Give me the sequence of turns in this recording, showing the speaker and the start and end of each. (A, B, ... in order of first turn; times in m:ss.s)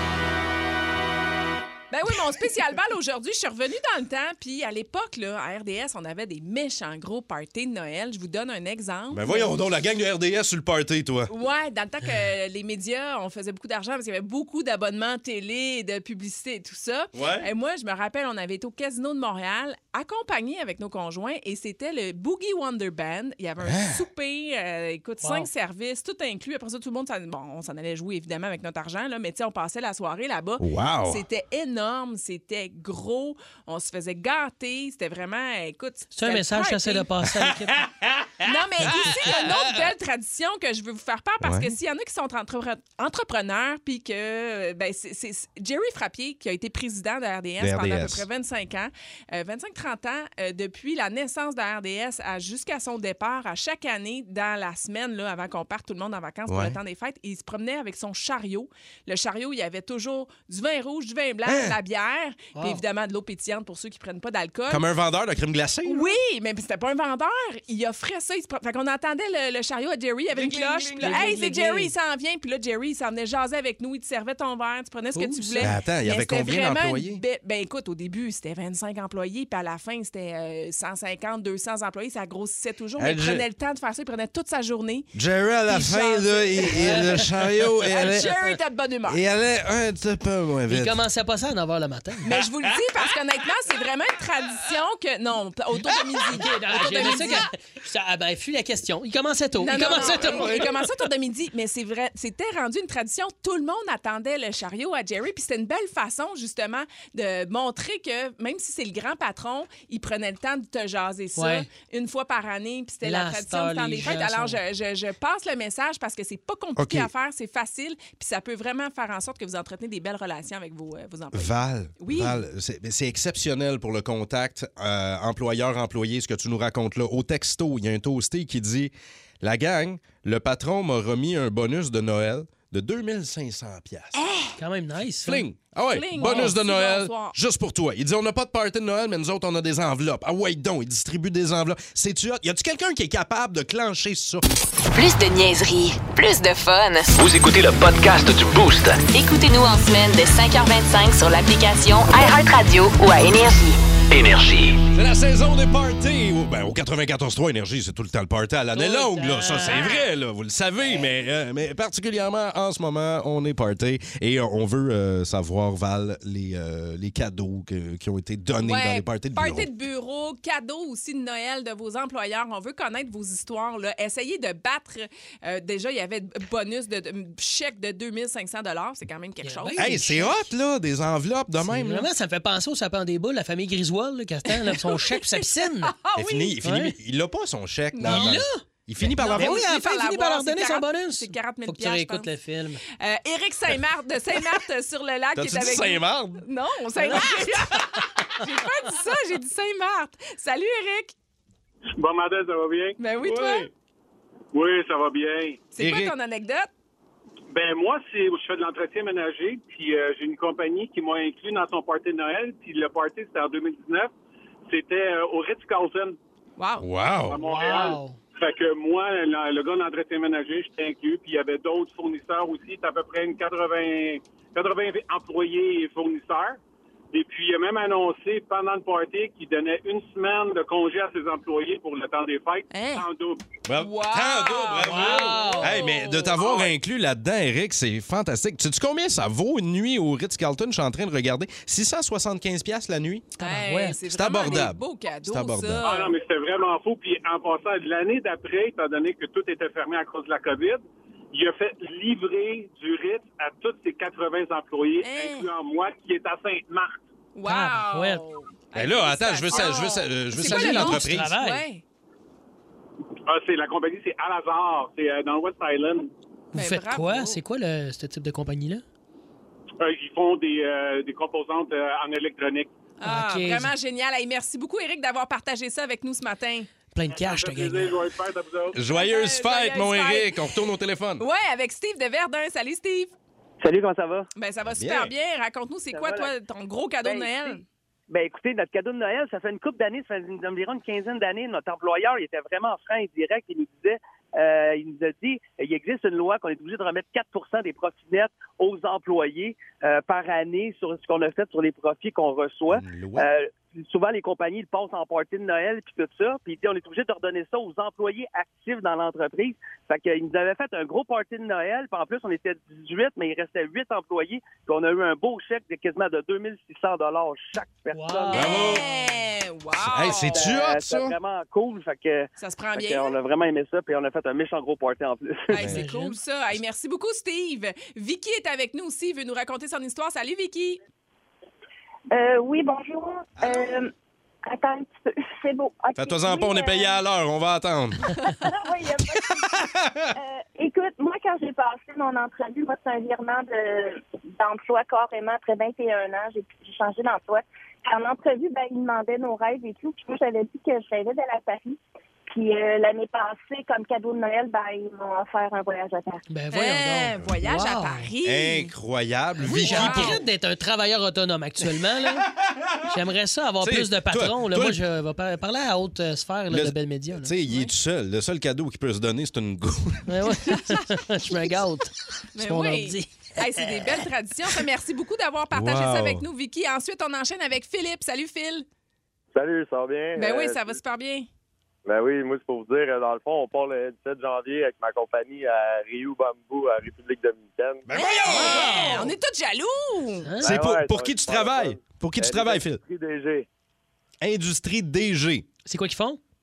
0:01.9-0:09.5 A
0:09.1-0:11.3 B
0:11.3-0:37.1 A
0:17.1-0:17.5 B
0:23.6-0:24.0 B
0:25.2-0:25.5 C
0:30.6-0:31.2 B
0:36.1-0:37.9 C
0:37.8-0:39.8 B
0:38.4-1:04.8 A
0:41.4-0:41.7 B
0:47.6-0:48.3 B
0:56.5-0:56.8 B
1:01.5-1:01.8 B
1:02.6-1:02.8 C
1:04.7-1:06.1 B
1:05.8-1:25.1 A
1:10.8-1:11.9 C
1:11.0-1:11.4 B
1:15.1-1:15.7 C
1:15.6-1:17.2 B
1:23.0-1:23.4 B
1:25.1-1:31.0 B
1:25.7-1:29.2 A
1:26.8-1:27.2 C
1:30.7-1:32.3 C
1:32.2-1:37.5 A
1:36.3-1:40.7 C
1:39.6-2:02.4 A
1:39.8-1:40.7 B
1:51.4-1:51.7 C
1:53.0-1:54.6 C
1:56.8-1:57.1 B
2:01.3-2:14.2 B
2:14.1-2:14.5 A
2:14.6-2:15.5 C
2:15.2-2:24.4 B
2:15.9-2:17.4 A
2:16.2-2:16.6 C
2:24.9-2:27.1 D
2:27.1-2:29.1 E
2:29.1-2:33.8 D
2:34.1-2:34.8 E
2:34.9-2:49.7 B
2:38.7-2:40.0 C
2:39.6-2:40.1 A
2:48.6-3:00.4 A
2:59.4-3:00.3 C
2:59.8-3:02.1 B
3:01.6-3:06.0 C
3:04.7-3:06.6 A
3:06.1-3:09.7 B
3:06.6-3:07.0 C
3:07.9-3:08.4 A
3:08.0-3:12.8 C
3:09.1-3:12.3 A
3:12.9-3:21.1 A
3:15.4-3:16.4 B
3:22.0-3:23.0 F
3:23.0-3:23.7 A
3:23.2-3:23.7 B
3:24.5-3:25.7 F
3:25.7-3:26.7 A
3:25.8-3:26.1 B
3:27.5-3:34.1 F
3:34.7-3:36.2 F
3:36.6-3:36.9 A
3:36.8-3:37.4 B
3:37.3-3:46.6 F
3:37.3-3:38.2 C
3:47.1-3:53.5 F
3:52.7-3:53.1 A
3:53.6-4:03.3 B
3:53.8-3:56.6 A
3:54.8-3:55.8 C
4:03.4-4:04.0 C
4:03.4-4:06.1 A
4:04.1-4:06.0 B
4:05.8-4:17.0 F
4:15.0-4:15.5 A
4:17.4-4:21.8 A
4:17.4-4:18.2 C
4:18.7-4:21.3 B
4:20.3-4:21.6 C
4:23.3-4:26.1 F
4:26.5-4:28.8 C
4:26.5-4:27.4 A
4:29.8-4:32.8 F
4:33.0-4:36.7 A
4:33.0-4:33.7 C
4:36.9-4:38.0 C
4:37.1-4:38.8 F
4:38.7-4:41.2 B
4:38.9-4:40.4 A
4:41.2-4:43.1 A
4:43.6-4:44.3 G
4:44.4-4:47.6 A
4:44.8-4:45.1 B
4:45.9-4:46.3 G
4:47.0-5:18.8 G
5:02.7-5:03.3 B
5:17.9-5:18.8 C
5:18.3-5:20.5 A
5:18.3-5:18.9 B
5:19.8-5:21.1 B
5:20.4-5:25.5 G
5:22.4-5:23.2 A
5:25.5-5:30.8 A
5:25.6-5:26.2 C
5:32.1-5:33.9 H
5:33.4-5:33.8 B
5:34.5-5:37.0 H
5:36.0-5:38.5 B
5:38.3-5:39.6 H
5:39.1-5:40.1 B
5:40.1-5:51.8 H
5:52.3-5:56.2 H
5:56.3-5:58.1 C
5:56.5-5:58.7 A
5:58.2-6:00.2 B
5:59.4-6:02.3 C
5:59.5-6:00.2 A
6:02.8-6:07.3 C
6:03.6-6:04.8 B
6:06.5-6:10.0 B
6:10.1-6:13.8 C
6:12.4-6:18.7 A
6:15.5-6:16.3 B
6:19.3-6:20.8 I
6:20.2-6:21.3 A
6:21.9-6:27.8 I
6:27.9-6:29.1 B
6:27.9-6:30.3 A
6:28.3-6:29.0 C
6:30.2-6:30.6 C
6:30.4-6:32.8 B
6:30.4-6:33.5 I
6:34.2-6:35.5 B
6:35.6-6:36.2 C